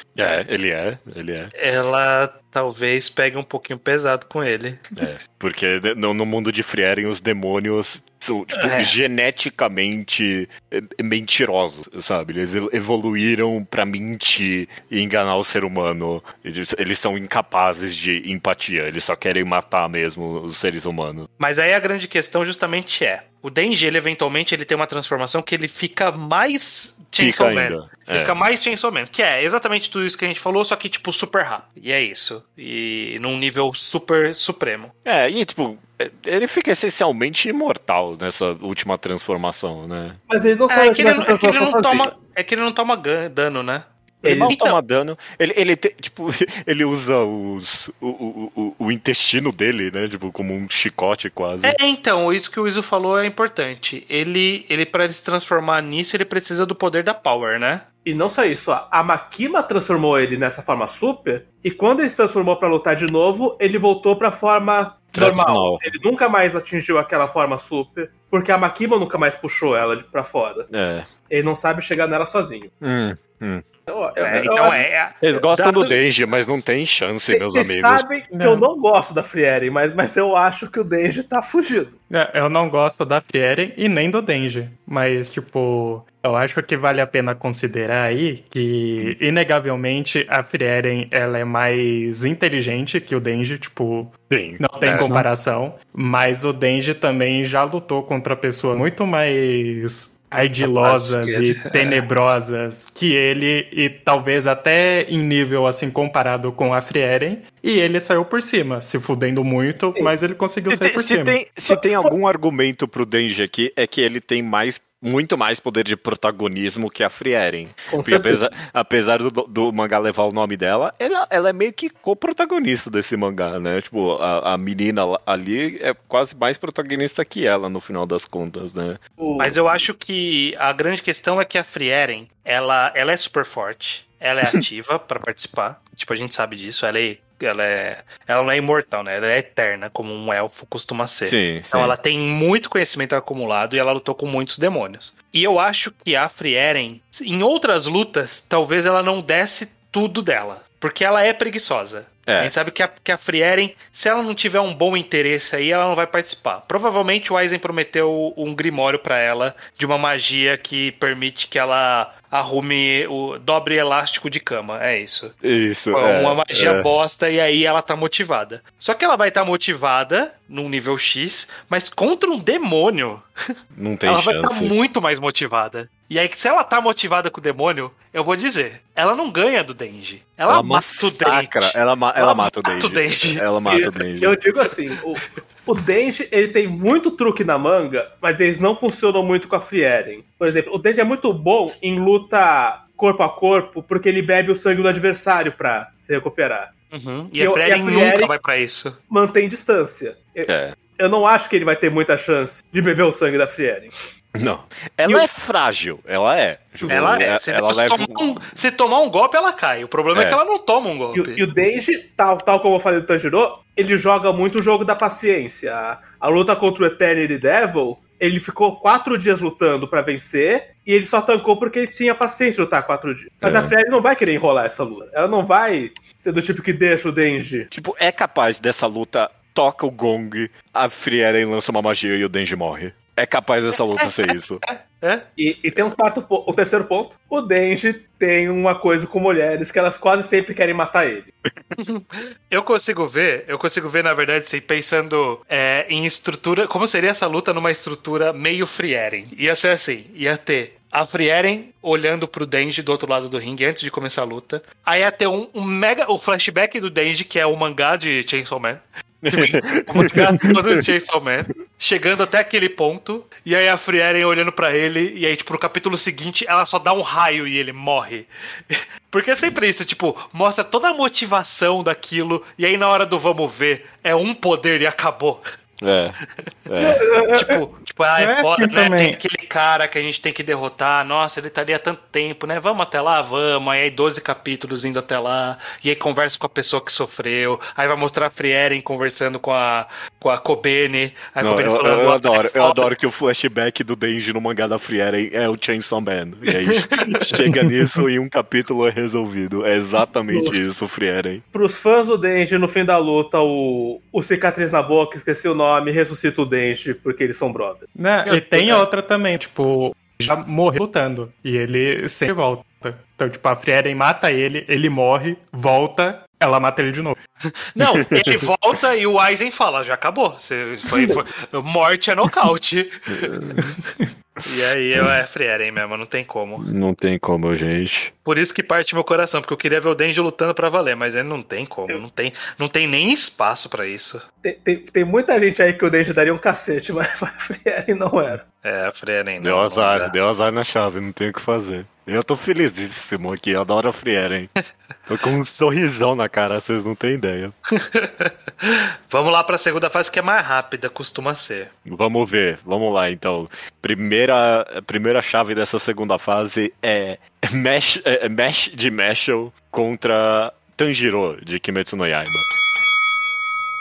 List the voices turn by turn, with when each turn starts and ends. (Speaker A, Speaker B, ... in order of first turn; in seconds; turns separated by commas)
Speaker A: 0.2-1.5, Speaker B: 1.6-5.0, Speaker A: 5.0-21.3, Speaker B: 8.5-8.9, Speaker B: 21.4-34.9, Speaker A: 27.2-28.4, Speaker A: 35.0-40.2, Speaker C: 40.3-42.1, Speaker B: 40.7-43.9, Speaker A: 44.2-51.8, Speaker C: 44.2-44.6, Speaker B: 44.5-44.8, Speaker B: 51.6-57.9, Speaker C: 58.0-70.7, Speaker A: 65.1-65.9, Speaker A: 70.7-71.1, Speaker C: 71.3-72.7, Speaker A: 72.8-73.6, Speaker C: 73.9-74.9, Speaker B: 74.2-76.0, Speaker A: 75.2-78.1, Speaker C: 77.3-81.9, Speaker D: 78.3-78.7, Speaker D: 82.1-111.4, Speaker A: 94.3-95.3, Speaker B: 100.4-102.0, Speaker A: 110.7-129.0, Speaker C: 111.7-112.1, Speaker C: 117.9-118.4, Speaker C: 129.2-129.6, Speaker B: 129.4-165.3, Speaker A: 141.2-142.0, Speaker A: 152.3-152.5, Speaker A: 165.4-166.9, Speaker B: 165.9-173.3, Speaker A: 173.8-174.8, Speaker B: 174.1-183.5, Speaker A: 180.5-184.4, Speaker C: 183.7-196.7, Speaker B: 196.9-199.0, Speaker C: 197.4-198.3, Speaker C: 199.1-203.9, Speaker A: 200.5-200.8, Speaker A: 204.3-208.6, Speaker B: 206.9-211.4, Speaker A: 210.2-210.4, Speaker C: 211.2-227.7, Speaker A: 223.4-223.7, Speaker A: 227.7-234.6, Speaker B: 234.0-235.2, Speaker C: 235.4-241.3, Speaker B: 241.8-275.4, Speaker A: 259.2-260.6, Speaker A: 275.8-277.0, Speaker C: 276.8-277.6, Speaker B: 277.4-292.9, Speaker D: 278.2-279.2, Speaker A: 291.4-301.4, Speaker B: 296.8-297.4, Speaker C: 300.3-300.6, Speaker C: 301.5-307.8, Speaker D: 308.0-317.2, Speaker B: 308.2-308.9, Speaker B: 317.7-323.3, Speaker A: 317.8-318.2, Speaker A: 323.1-323.8, Speaker B: 324.4-326.7, Speaker A: 326.6-328.1, Speaker B: 328.3-334.2, Speaker C: 334.4-338.4, Speaker B: 338.6-340.1, Speaker A: 339.4-344.5, Speaker A: 345.1-347.5, Speaker B: 347.8-351.7, Speaker A: 351.9-362.5